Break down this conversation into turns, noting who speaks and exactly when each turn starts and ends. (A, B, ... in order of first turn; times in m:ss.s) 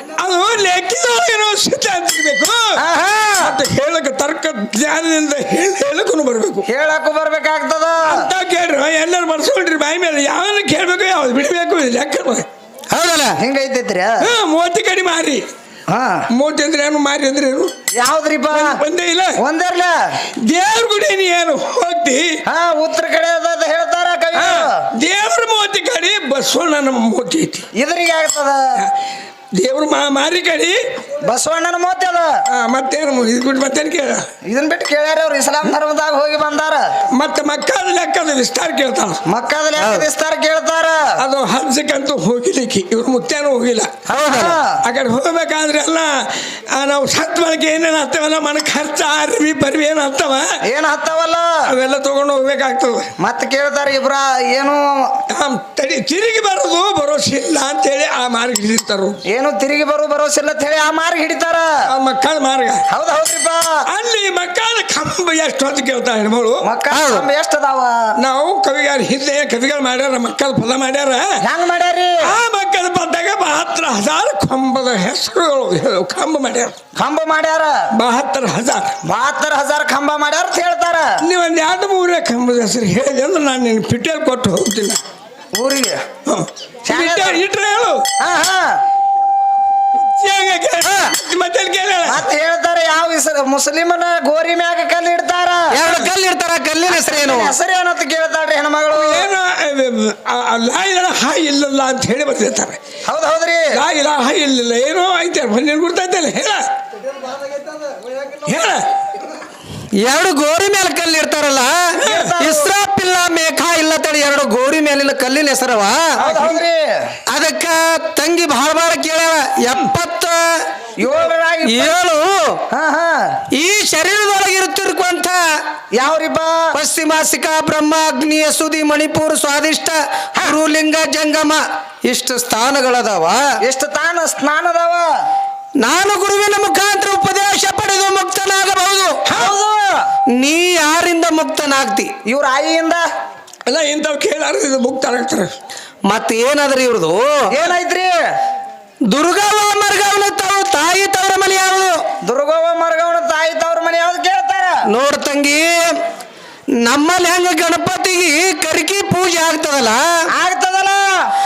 0:00.2-0:02.7 A
0:02.8-0:03.6 B
0:03.4-0:06.6 A
0:06.6-0:08.2 B
0:08.0-0:12.4 A
0:12.9-0:13.4 C
0:13.4-0:14.3 B
0:14.2-0:15.4 A
0:15.9-0:16.2 B
0:16.3-0:17.7 A
0:18.0-0:18.8 B
0:18.5-0:19.4 A
0:19.4-0:19.9 B
0:20.4-0:22.4 A
0:22.4-0:24.8 B
0:24.4-0:27.6 A
0:27.8-0:28.6 B
0:29.6-0:30.8 A
0:31.2-0:32.3 B
0:32.5-0:34.2 A
0:34.5-0:36.9 B
0:37.1-0:39.2 A
0:39.3-0:41.2 B
0:39.8-0:40.0 C
0:41.2-0:43.9 A
0:44.1-0:44.6 C
0:44.1-0:44.8 B
0:44.8-0:50.5 A
0:50.6-0:51.5 B
0:51.7-0:53.1 A
0:53.2-0:55.0 B
0:55.3-0:59.2 A
0:59.3-1:01.7 B
1:01.9-1:02.8 A
1:02.9-1:03.8 B
1:03.9-1:06.6 A
1:06.6-1:07.9 B
1:06.9-1:07.2 C
1:08.2-1:11.3 A
1:11.4-1:12.3 B
1:12.2-1:16.7 A
1:17.0-1:17.8 B
1:17.9-1:18.9 A
1:19.0-1:21.2 B
1:21.2-1:25.0 A
1:25.5-1:26.0 B
1:26.2-1:28.0 A
1:26.9-1:27.4 B
1:28.2-1:28.8 B
1:30.2-1:32.2 A
1:30.8-1:31.1 C
1:32.1-1:35.7 B
1:35.7-1:37.5 C
1:36.8-1:39.3 B
1:38.9-1:42.8 A
1:43.0-1:43.8 B
1:43.7-1:46.6 A
1:48.4-1:48.8 A
1:50.0-1:56.2 C
1:52.0-1:52.3 A
1:52.0-1:52.7 B
1:56.2-1:57.0 B
1:57.3-2:00.6 C
2:01.0-2:02.0 B
2:01.7-2:02.6 C
2:02.7-2:03.4 B
2:03.5-2:05.4 C
2:05.9-2:06.7 B
2:06.7-2:13.4 C
2:13.6-2:15.0 B
2:15.8-2:19.2 C
2:19.3-2:20.1 B
2:20.3-2:22.1 C
2:22.2-2:23.0 B
2:23.7-2:25.5 A
2:26.1-2:27.3 C
2:27.5-2:28.1 B
2:29.1-2:32.0 C
2:32.2-2:34.8 B
2:34.9-2:36.0 C
2:36.8-2:40.0 C
2:40.3-2:41.3 B